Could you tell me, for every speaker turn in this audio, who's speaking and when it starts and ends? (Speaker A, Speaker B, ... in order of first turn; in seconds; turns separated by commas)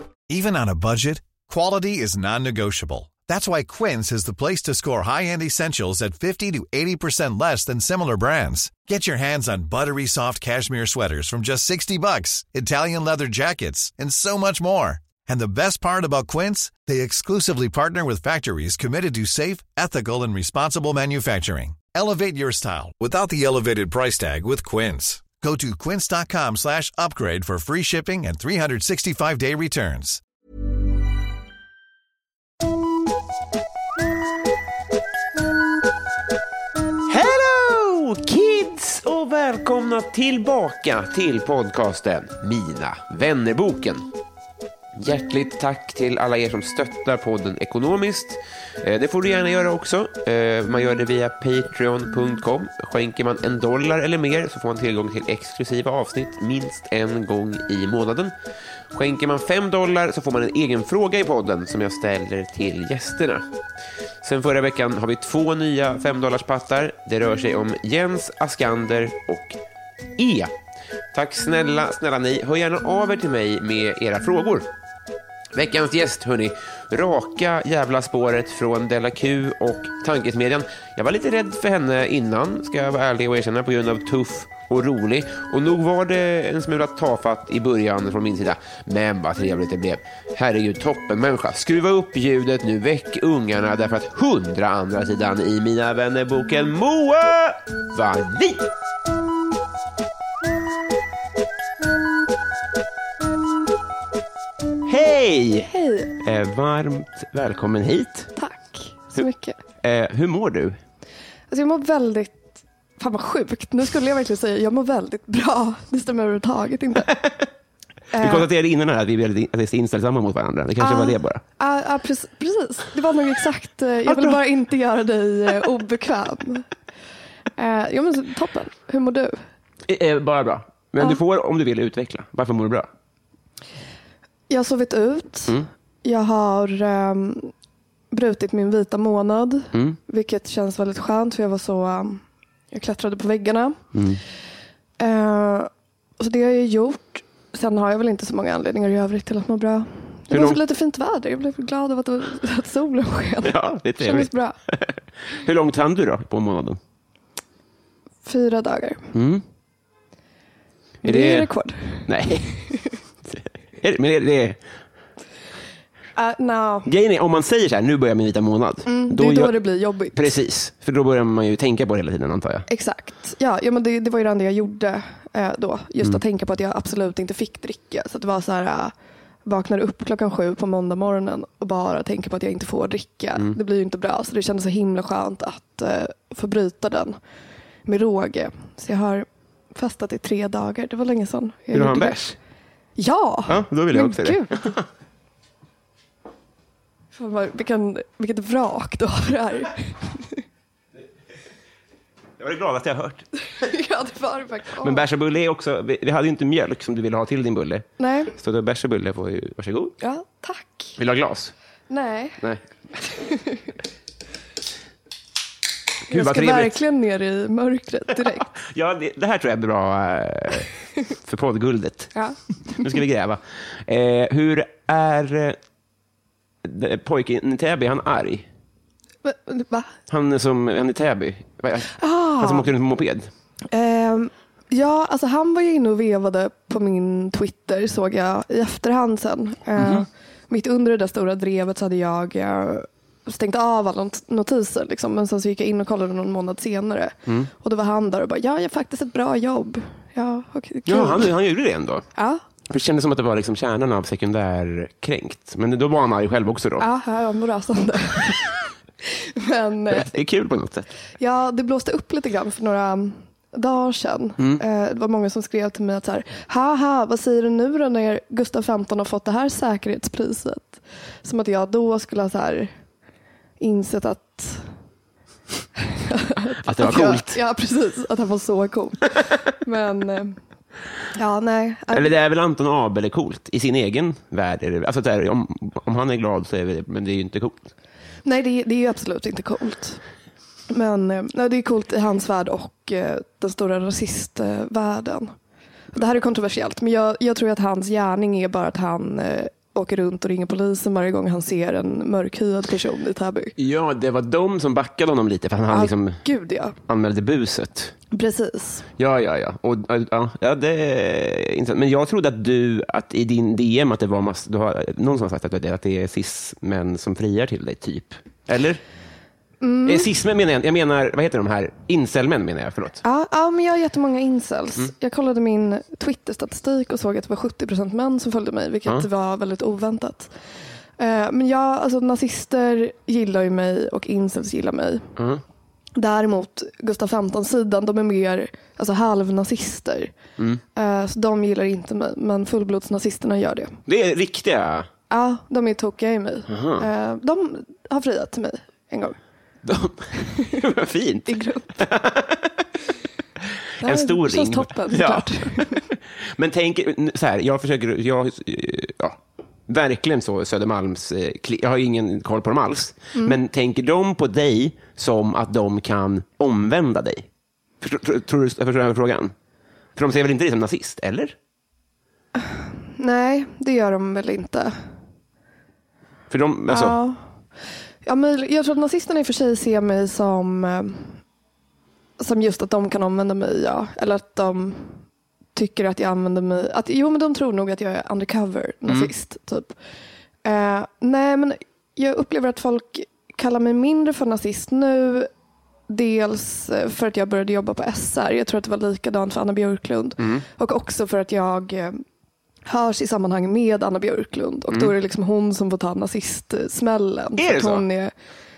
Speaker A: 0.3-30.2, Speaker B: 37.1-44.1, Speaker B: 45.0-58.3, Speaker B: 58.9-63.5, Speaker B: 64.2-69.6, Speaker B: 70.2-70.5, Speaker B: 71.1-74.7, Speaker B: 75.5-98.7, Speaker B: 104.8-105.7, Speaker C: 105.7-106.1, Speaker B: 106.2-108.3, Speaker C: 108.3-109.6, Speaker B: 109.8-110.8, Speaker C: 111.5-117.1, Speaker C: 118.1-118.5, Speaker B: 118.2-121.4, Speaker C: 120.8-126.7, Speaker B: 124.0-124.4, Speaker C: 127.6-129.4, Speaker B: 129.9-132.9, Speaker C: 134.5-137.5, Speaker C: 138.1-143.8, Speaker B: 139.7-140.0, Speaker B: 143.9-144.2, Speaker C: 145.0-154.6, Speaker B: 150.3-150.6, Speaker B: 153.4-156.8, Speaker C: 158.2-159.1, Speaker B: 159.1-159.4, Speaker C: 161.0-162.1, Speaker B: 161.0-161.5, Speaker B: 162.1-162.6, Speaker B: 163.3-164.6, Speaker C: 166.2-166.9, Speaker B: 166.8-169.6, Speaker C: 168.9-170.3, Speaker B: 170.1-172.7, Speaker C: 172.7-178.9, Speaker C: 179.4-187.2, Speaker C: 187.8-192.2, Speaker B: 191.7-192.3, Speaker C: 193.0-194.5, Speaker B: 193.5-194.8, Speaker C: 197.1-200.4, Speaker B: 202.4-203.2, Speaker C: 203.6-205.0, Speaker B: 204.8-209.9, Speaker C: 208.0-208.3, Speaker C: 210.0-211.0, Speaker B: 211.0-211.5, Speaker C: 211.9-212.4, Speaker C: 213.1-213.7, Speaker B: 216.1-216.8, Speaker C: 216.1-218.4, Speaker B: 218.6-222.1, Speaker C: 222.1-223.0, Speaker B: 222.7-225.6, Speaker B: 226.6-228.5, Speaker C: 229.2-229.9, Speaker B: 230.1-233.3, Speaker C: 232.0-232.7, Speaker C: 233.7-251.3, Speaker B: 239.8-240.1, Speaker B: 250.8-252.1, Speaker C: 252.2-252.4, Speaker B: 252.7-256.9, Speaker C: 256.8-260.2, Speaker B: 259.9-260.9, Speaker C: 261.2-272.7, Speaker C: 273.6-274.6, Speaker C: 276.0-280.4, Speaker B: 276.6-277.4, Speaker C: 281.1-282.1, Speaker B: 281.9-287.7, Speaker C: 288.2-290.0, Speaker C: 290.7-295.3, Speaker C: 295.9-303.5, Speaker B: 303.6-306.2, Speaker C: 305.7-306.8, Speaker B: 306.9-307.9, Speaker C: 308.1-308.9, Speaker B: 309.0-318.8, Speaker C: 319.6-320.1, Speaker B: 319.9-323.0, Speaker C: 323.0-330.3, Speaker C: 331.0-335.1, Speaker B: 335.2-335.4, Speaker C: 335.9-340.1, Speaker C: 340.8-343.8, Speaker B: 343.9-344.9, Speaker C: 345.1-349.2, Speaker B: 346.5-346.9, Speaker B: 349.6-352.6, Speaker C: 351.3-351.7, Speaker C: 353.8-355.8, Speaker B: 353.8-367.2, Speaker B: 367.8-369.3, Speaker B: 369.9-371.3, Speaker C: 372.4-374.7, Speaker B: 376.3-377.0, Speaker C: 376.7-377.2, Speaker C: 378.0-381.2, Speaker C: 382.2-385.0, Speaker C: 385.5-389.7, Speaker C: 390.4-395.3, Speaker C: 395.9-402.0, Speaker B: 400.2-400.4, Speaker C: 402.6-408.1, Speaker B: 407.4-407.8